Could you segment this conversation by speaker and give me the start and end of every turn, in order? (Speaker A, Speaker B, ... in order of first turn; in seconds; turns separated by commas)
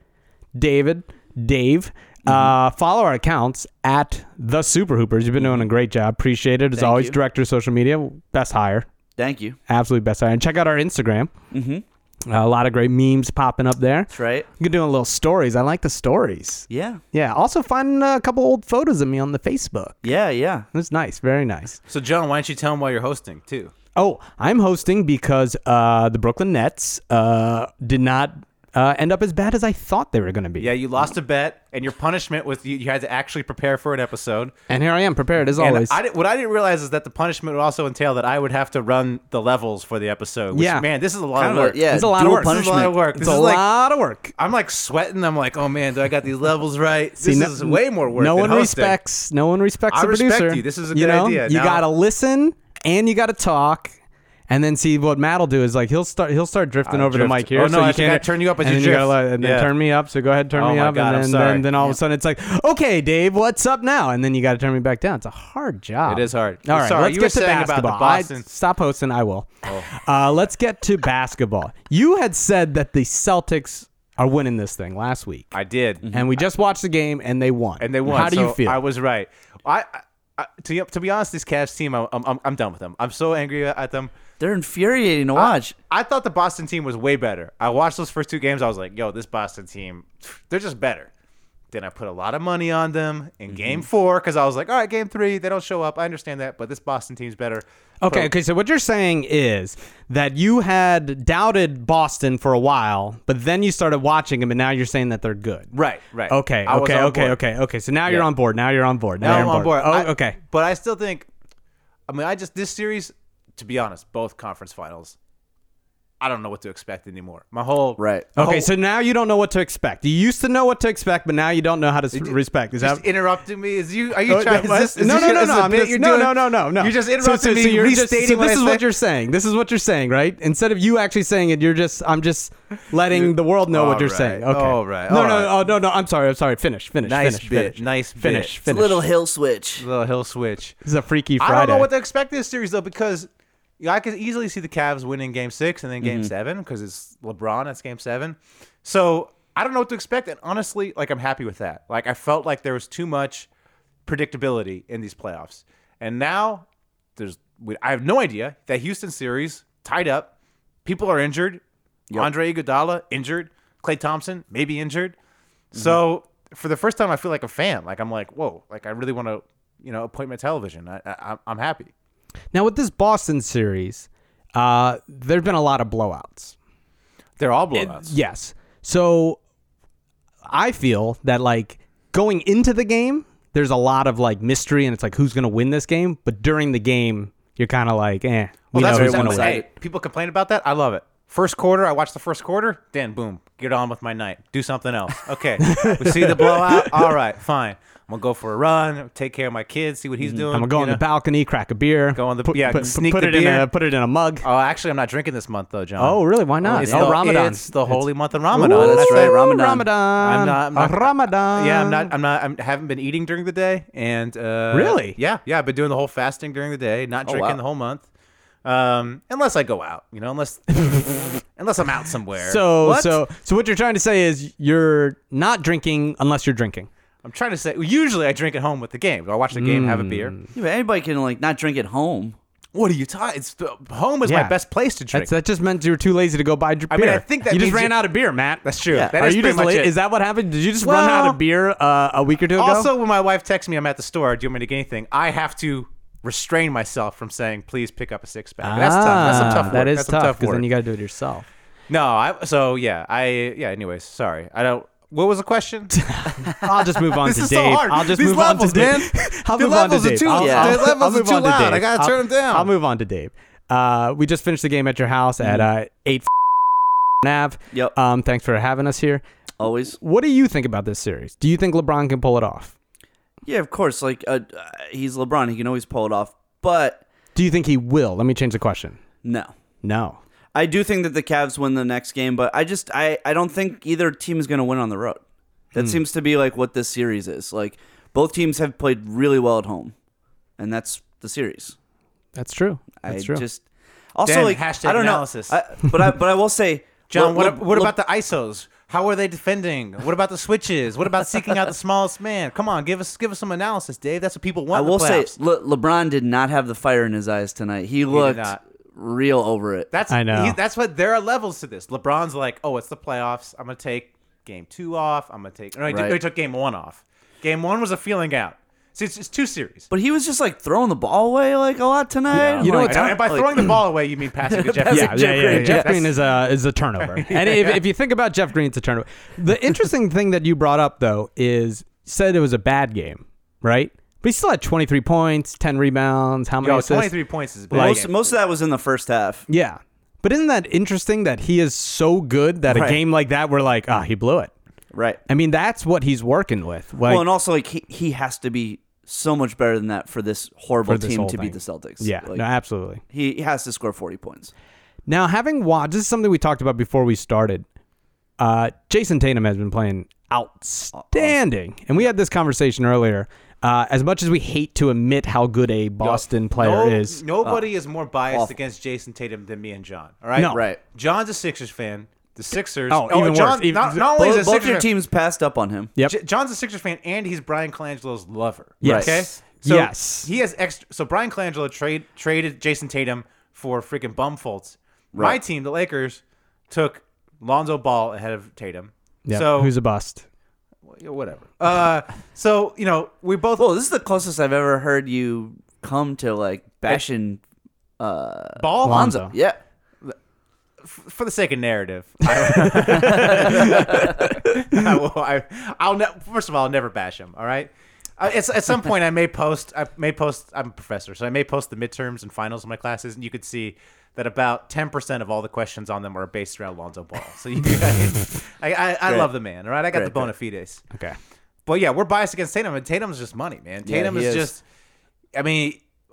Speaker A: 0.6-8.9, Speaker B: 2.2-2.5, Speaker B: 5.4-5.7, Speaker B: 6.8-7.2, Speaker B: 9.2-9.6, Speaker A: 9.7-11.3, Speaker B: 11.5-11.8, Speaker A: 12.3-20.1, Speaker B: 14.1-14.5, Speaker B: 16.7-17.0, Speaker B: 20.0-20.7, Speaker A: 20.7-21.8, Speaker C: 21.9-23.7, Speaker A: 24.0-30.7, Speaker C: 30.6-34.5, Speaker A: 34.7-36.0, Speaker C: 35.6-43.7, Speaker A: 40.5-40.9, Speaker B: 41.4-43.0, Speaker A: 41.9-42.6, Speaker A: 43.1-44.3, Speaker C: 44.4-49.0, Speaker A: 47.2-53.9, Speaker C: 49.9-51.9, Speaker A: 54.5-75.5, Speaker C: 56.9-59.7, Speaker C: 60.5-62.0, Speaker C: 66.0-68.5, Speaker C: 75.5-76.1, Speaker A: 76.1-78.8, Speaker C: 77.8-84.1, Speaker B: 84.4-85.8, Speaker C: 85.3-91.1, Speaker C: 91.7-98.3, Speaker B: 93.5-93.8, Speaker A: 98.0-105.7, Speaker C: 105.7-107.4, Speaker A: 106.3-110.4, Speaker C: 109.2-111.3, Speaker C: 112.1-115.2, Speaker C: 116.2-118.7, Speaker B: 118.0-118.3, Speaker A: 118.4-123.0, Speaker C: 122.1-128.9, Speaker A: 124.3-139.1, Speaker C: 133.1-135.7, Speaker C: 137.1-138.6, Speaker B: 138.7-139.9, Speaker C: 139.8-140.8, Speaker A: 140.8-141.9, Speaker C: 141.4-143.3, Speaker C: 143.8-153.5, Speaker B: 146.0-146.3, Speaker C: 154.1-156.7, Speaker C: 157.2-160.3, Speaker C: 160.8-161.6, Speaker C: 162.1-165.2, Speaker C: 165.7-171.9, Speaker B: 165.7-166.0, Speaker A: 172.5-176.6, Speaker C: 177.4-178.2, Speaker A: 177.7-179.4, Speaker A: 180.5-189.6, Speaker C: 188.7-201.0, Speaker B: 188.7-189.7, Speaker A: 195.6-196.9, Speaker B: 200.2-200.5, Speaker A: 200.5-204.4, Speaker C: 202.2-203.7, Speaker C: 204.4-209.4, Speaker A: 206.0-212.1, Speaker B: 206.7-207.2, Speaker B: 208.6-209.9, Speaker C: 210.2-218.1, Speaker A: 214.7-215.2, Speaker B: 217.3-217.6, Speaker C: 218.7-222.6, Speaker A: 222.4-226.9, Speaker B: 222.8-223.2, Speaker C: 227.2-230.3, Speaker A: 229.5-230.5, Speaker B: 230.6-232.4, Speaker C: 232.7-235.3, Speaker A: 234.2-234.6, Speaker A: 235.1-242.9, Speaker C: 236.9-238.1, Speaker C: 238.6-239.9, Speaker B: 238.9-239.1, Speaker C: 240.8-241.4, Speaker C: 242.6-250.7, Speaker A: 248.6-251.5, Speaker B: 249.2-249.8, Speaker C: 251.9-256.6, Speaker A: 255.9-266.3, Speaker C: 257.2-262.7, Speaker B: 260.3-260.9, Speaker B: 265.4-265.7, Speaker A: 267.2-269.2, Speaker B: 269.6-270.0, Speaker A: 270.0-272.7, Speaker B: 273.4-277.0, Speaker A: 277.4-279.0, Speaker B: 279.2-279.5, Speaker A: 279.8-280.2, Speaker B: 280.5-285.2, Speaker B: 285.7-289.9, Speaker B: 290.6-291.8, Speaker A: 292.4-293.4, Speaker B: 293.0-297.9, Speaker C: 294.2-295.6, Speaker C: 297.1-305.4, Speaker B: 304.7-309.9, Speaker C: 308.1-308.6, Speaker C: 309.9-319.9, Speaker A: 310.1-310.6, Speaker B: 315.9-316.2, Speaker B: 319.9-323.8, Speaker C: 322.3-326.2, Speaker A: 322.6-323.3, Speaker B: 324.4-326.1, Speaker A: 324.9-337.2, Speaker C: 327.0-327.8, Speaker C: 336.6-338.3, Speaker A: 337.7-338.0, Speaker B: 337.7-339.5, Speaker A: 339.5-344.5, Speaker B: 342.7-343.0, Speaker B: 344.9-345.2, Speaker A: 345.3-347.3, Speaker B: 347.1-352.4, Speaker A: 350.9-353.0, Speaker B: 353.1-354.5, Speaker A: 355.1-357.6, Speaker A: 358.4-367.2, Speaker B: 360.9-361.4, Speaker C: 366.0-374.9, Speaker B: 367.4-367.7, Speaker B: 368.3-368.6, Speaker B: 370.5-370.8, Speaker A: 372.9-374.1, Speaker B: 374.1-375.9, Speaker C: 376.0-389.7, Speaker A: 378.8-380.3, Speaker B: 378.8-379.2, Speaker B: 385.1-385.4, Speaker A: 389.3-390.2, Speaker C: 390.9-393.7, Speaker B: 393.6-397.4, Speaker B: 398.0-399.6, Speaker C: 398.6-399.3, Speaker A: 398.8-399.3, Speaker C: 400.8-420.9, Speaker A: 402.9-403.3, Speaker B: 402.9-404.2, Speaker B: 419.1-419.3, Speaker B: 419.9-420.3, Speaker C: 421.7-424.6, Speaker B: 423.8-424.5, Speaker C: 425.3-425.8